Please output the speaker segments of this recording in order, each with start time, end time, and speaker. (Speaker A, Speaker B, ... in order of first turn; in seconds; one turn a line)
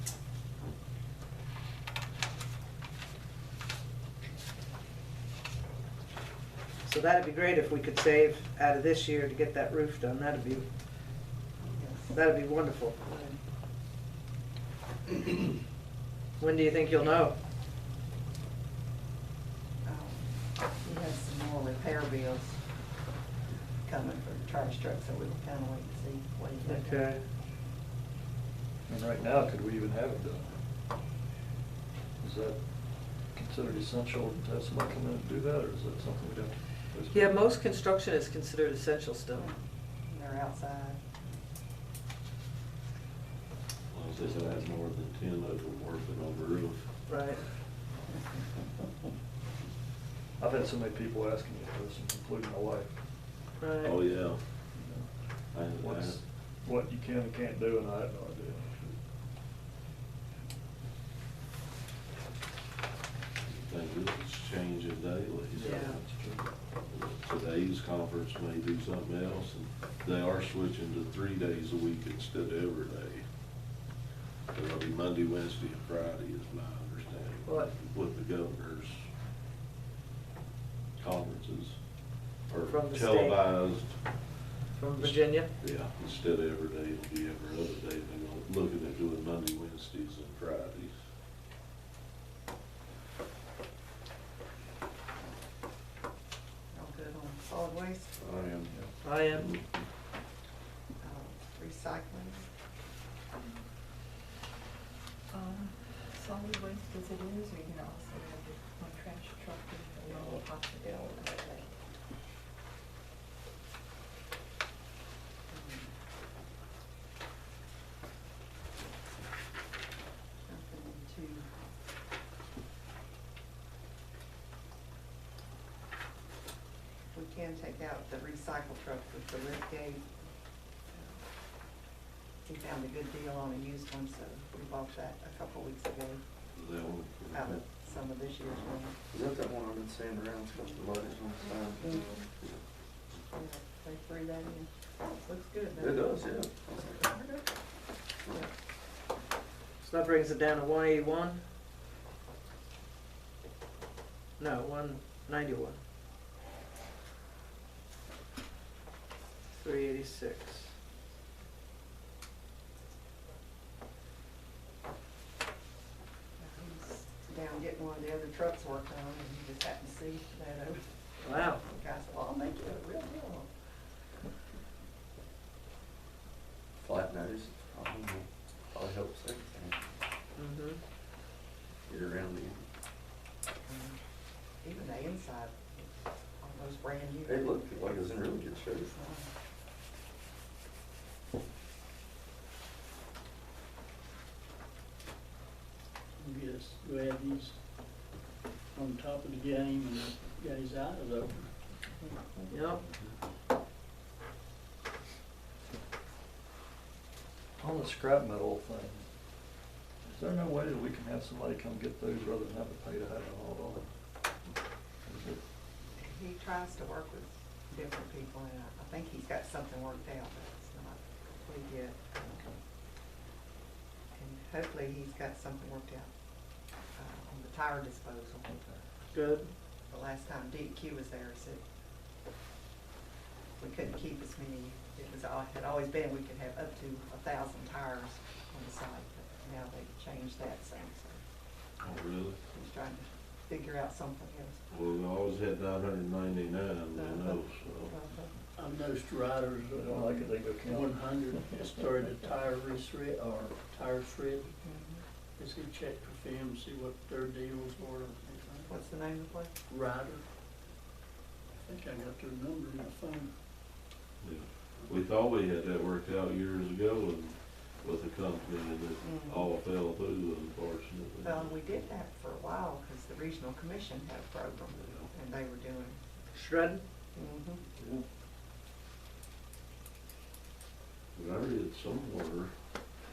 Speaker A: 6.8-10.7
Speaker B: 11.8-12.2
Speaker A: 12.1-13.0
Speaker B: 13.0-13.4
Speaker A: 16.4-17.3
Speaker B: 19.8-22.6
Speaker B: 23.8-27.1
Speaker C: 26.6-27.2
Speaker C: 28.9-30.5
Speaker C: 32.2-32.6
Speaker C: 33.1-37.3
Speaker A: 37.1-39.5
Speaker B: 39.4-41.1
Speaker D: 43.9-46.9
Speaker A: 47.1-47.4
Speaker C: 50.4-52.9
Speaker A: 53.6-54.0
Speaker D: 53.8-54.4
Speaker C: 54.7-55.1
Speaker D: 55.5-56.2
Speaker C: 55.7-59.0
Speaker D: 63.4-65.7
Speaker C: 65.5-66.5
Speaker B: 65.6-66.0
Speaker D: 66.9-73.2
Speaker D: 74.5-79.1
Speaker D: 81.0-81.8
Speaker D: 82.5-84.0
Speaker A: 82.7-83.4
Speaker A: 84.7-85.5
Speaker D: 85.0-90.9
Speaker B: 96.7-98.6
Speaker E: 98.2-98.8
Speaker A: 99.0-99.5
Speaker E: 99.3-99.8
Speaker B: 101.0-102.5
Speaker F: 105.3-111.5
Speaker B: 110.0-111.6
Speaker B: 115.5-115.9
Speaker B: 120.5-121.5
Speaker B: 127.1-130.1
Speaker B: 130.9-131.2
Speaker B: 132.4-136.2
Speaker D: 136.5-137.6
Speaker B: 137.3-138.9
Speaker E: 139.1-142.6
Speaker B: 141.8-142.2
Speaker B: 143.3-146.1
Speaker E: 145.8-147.1
Speaker B: 147.1-147.4
Speaker A: 149.8-151.4
Speaker A: 154.4-155.8
Speaker A: 159.5-160.7
Speaker B: 166.4-173.5
Speaker A: 171.2-171.6
Speaker E: 176.8-179.8
Speaker A: 180.4-180.8
Speaker E: 181.9-182.6
Speaker B: 183.7-184.0
Speaker B: 184.6-189.3
Speaker E: 187.2-188.9
Speaker G: 196.2-197.6
Speaker G: 198.7-201.5
Speaker B: 202.0-202.5
Speaker A: 202.5-202.8
Speaker C: 207.6-209.1
Speaker C: 210.0-213.9
Speaker C: 215.1-215.4
Speaker B: 216.0-222.5
Speaker B: 224.1-226.1
Speaker B: 226.9-228.5
Speaker C: 228.5-228.8
Speaker A: 229.1-229.5
Speaker B: 229.9-231.6
Speaker B: 233.6-241.2
Speaker D: 241.8-242.4
Speaker B: 242.5-244.6
Speaker D: 244.7-247.9
Speaker B: 246.9-248.3
Speaker G: 248.6-254.5
Speaker C: 249.8-250.9
Speaker B: 254.6-255.0
Speaker G: 255.4-258.7
Speaker B: 258.7-259.5
Speaker G: 259.7-260.2
Speaker G: 261.6-263.3
Speaker D: 264.2-271.6
Speaker B: 269.0-269.5
Speaker B: 271.2-276.0
Speaker D: 274.7-275.1
Speaker A: 276.3-276.8
Speaker B: 277.1-277.6
Speaker C: 277.8-278.0
Speaker D: 281.1-282.6